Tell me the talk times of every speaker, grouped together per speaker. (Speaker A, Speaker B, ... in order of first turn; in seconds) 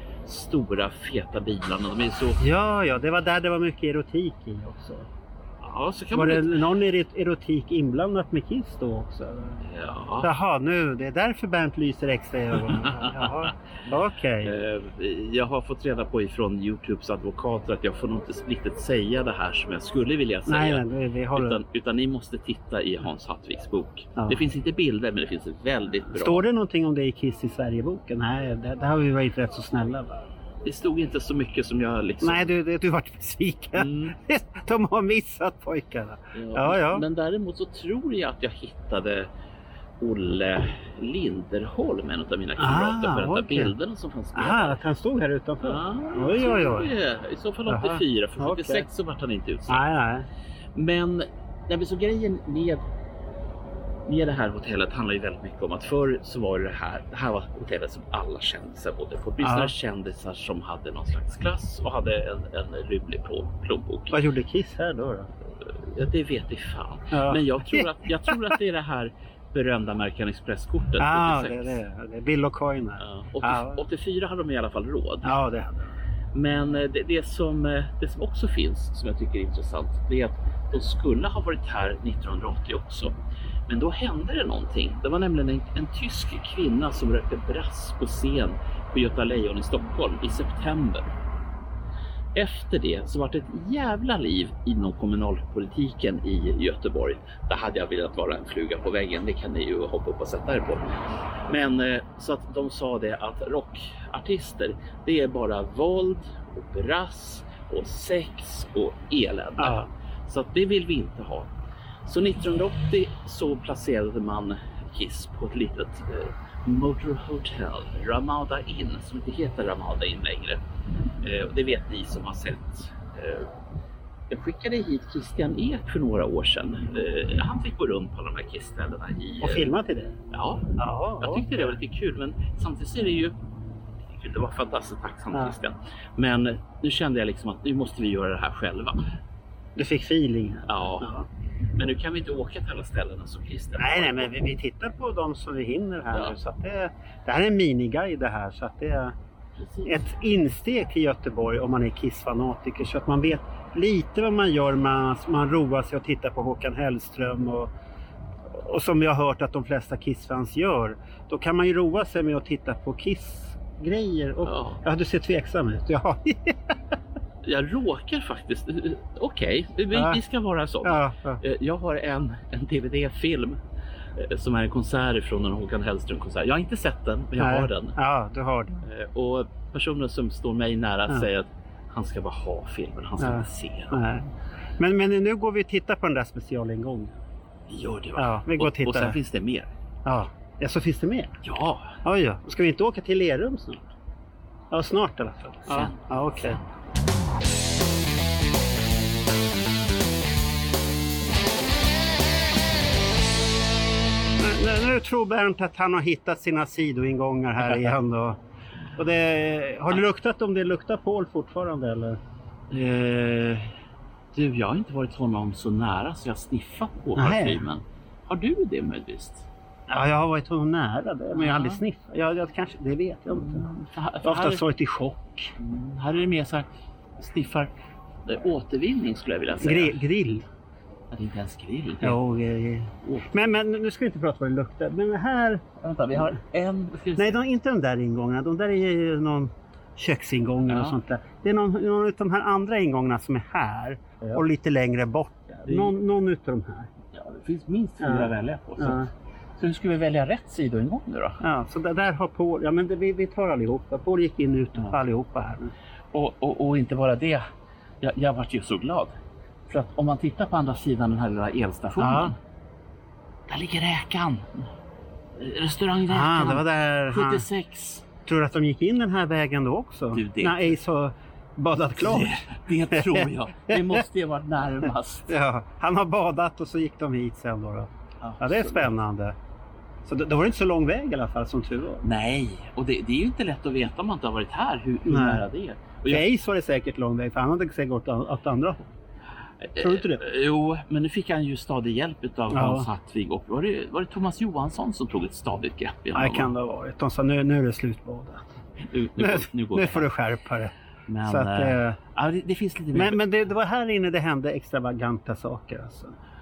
Speaker A: 0.3-2.4, 5.6-6.6, 9.6-10.3, 12.8-13.5, 14.4-26.4, 30.6-32.5, 33.8-34.1, 36.3-39.3, 40.0-44.8, 45.6-50.0, 50.8-52.8, 54.1-64.2, 65.6-71.8, 73.0-75.4, 76.3-83.1, 83.7-91.2, 92.3-100.9, 101.5-111.5, 112.0-120.6, 121.2-123.5, 124.3-129.7, 130.3-133.4, 134.1-139.1, 140.7-141.1, 141.8-144.3, 146.1-146.4, 149.6-150.0, 164.4-164.8, 167.4-173.6, 174.2-178.0, 178.8-184.0, 187.7-189.7, 191.4-192.0, 195.6-196.7, 212.7-213.8, 214.3-219.5, 221.3-221.8, 223.3-224.6, 225.6-226.7, 227.2-227.7, 228.3-230.0, 231.1-232.2, 235.8-237.4, 240.7-241.0, 245.7-245.9, 247.1-251.4, 256.1-257.5, 258.0-259.2, 259.7-262.4, 263.5-264.7, 265.4-268.1, 270.1-270.8, 272.0-275.3, 278.2-278.9, 282.0-286.3, 289.6-296.5, 298.8-300.1, 301.1-303.2
Speaker B: 2.4-5.1, 6.1-9.6, 10.2-14.6, 20.5-21.6, 26.1-30.2, 32.2-37.0, 42.6-43.7, 44.4-46.9, 47.7-48.9, 49.7-50.3, 59.4-59.7, 64.1-65.3, 67.1-68.5, 71.0-73.8, 75.2-75.8, 109.6-109.9, 129.4-130.2, 130.8-131.8, 139.8-141.3, 143.8-149.2, 149.9-157.7, 158.5-166.8, 169.9-170.2, 170.8-171.4, 177.4-178.8, 183.2-184.3, 184.8-187.2, 188.2-189.2, 190.1-191.3, 192.0-193.9, 194.7-196.6, 204.4-208.4, 209.0-212.2, 217.2-217.7, 219.9-223.7, 224.2-225.5, 229.6-230.5, 232.0-235.7, 237.2-246.9, 248.0-248.3, 248.8-249.1, 251.4-255.7, 262.0-262.3, 266.1-267.4, 268.3-272.4, 272.9-274.0, 275.3-279.4, 280.1-282.0, 285.1-285.4, 286.1-288.9, 289.8-290.2, 292.5-292.9, 296.1-298.5, 299.2-302.0, 302.9-306.1